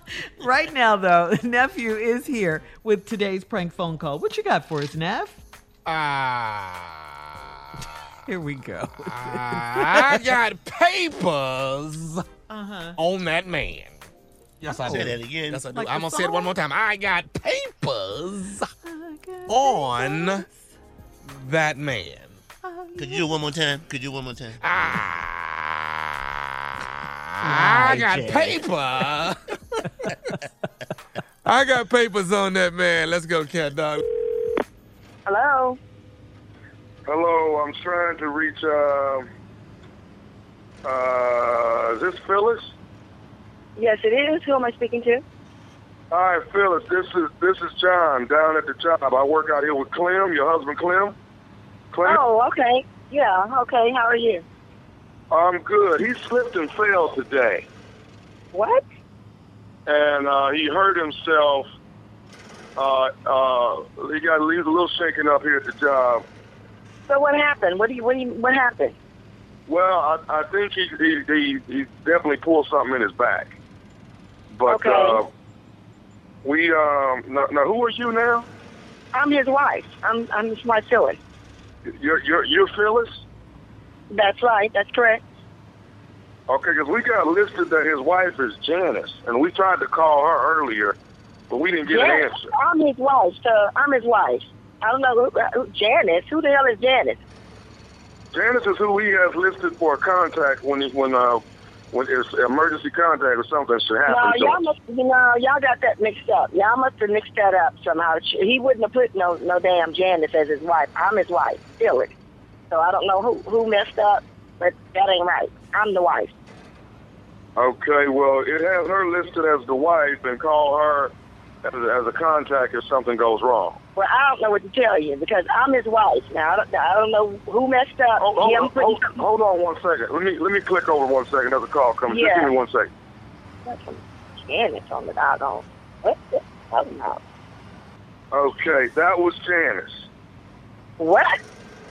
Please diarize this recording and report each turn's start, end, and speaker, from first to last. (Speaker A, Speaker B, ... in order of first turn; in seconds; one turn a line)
Speaker A: 0.1-5.4
Speaker B: 5.8-7.1
Speaker A: 8.3-10.2
Speaker B: 9.1-12.2
Speaker A: 12.5-13.0
Speaker B: 13.0-13.9
Speaker B: 14.6-18.7
Speaker C: 14.8-15.6
Speaker A: 15.7-16.6
Speaker A: 18.8-20.8
Speaker B: 19.5-20.4
Speaker B: 21.2-22.4
Speaker A: 22.6-23.3
Speaker C: 23.0-24.6
Speaker B: 24.6-25.7
Speaker A: 27.4-28.6
Speaker B: 27.4-29.4
Speaker B: 31.4-34.0
Speaker D: 35.2-35.8
Speaker E: 37.1-39.3
Speaker E: 40.8-42.7
Speaker D: 43.8-45.2
Speaker E: 46.1-51.1
Speaker E: 51.9-52.2
Speaker D: 52.0-54.4
Speaker E: 55.3-57.6
Speaker D: 58.5-58.8
Speaker E: 59.9-61.7
Speaker E: 62.8-66.2
Speaker D: 67.1-68.9
Speaker E: 69.7-73.5
Speaker E: 74.5-75.3
Speaker D: 74.7-75.2
Speaker E: 76.4-78.5
Speaker D: 79.1-81.2
Speaker E: 82.0-83.2
Speaker D: 84.1-85.2
Speaker E: 86.5-91.0
Speaker E: 91.5-92.5
Speaker D: 91.8-97.2
Speaker E: 98.3-104.6
Speaker D: 104.1-112.1
Speaker D: 112.7-116.3
Speaker E: 117.5-123.8
Speaker D: 124.0-129.2
Speaker E: 128.2-132.9
Speaker D: 132.1-132.5
Speaker D: 133.7-137.2
Speaker E: 138.3-140.1
Speaker D: 141.0-141.3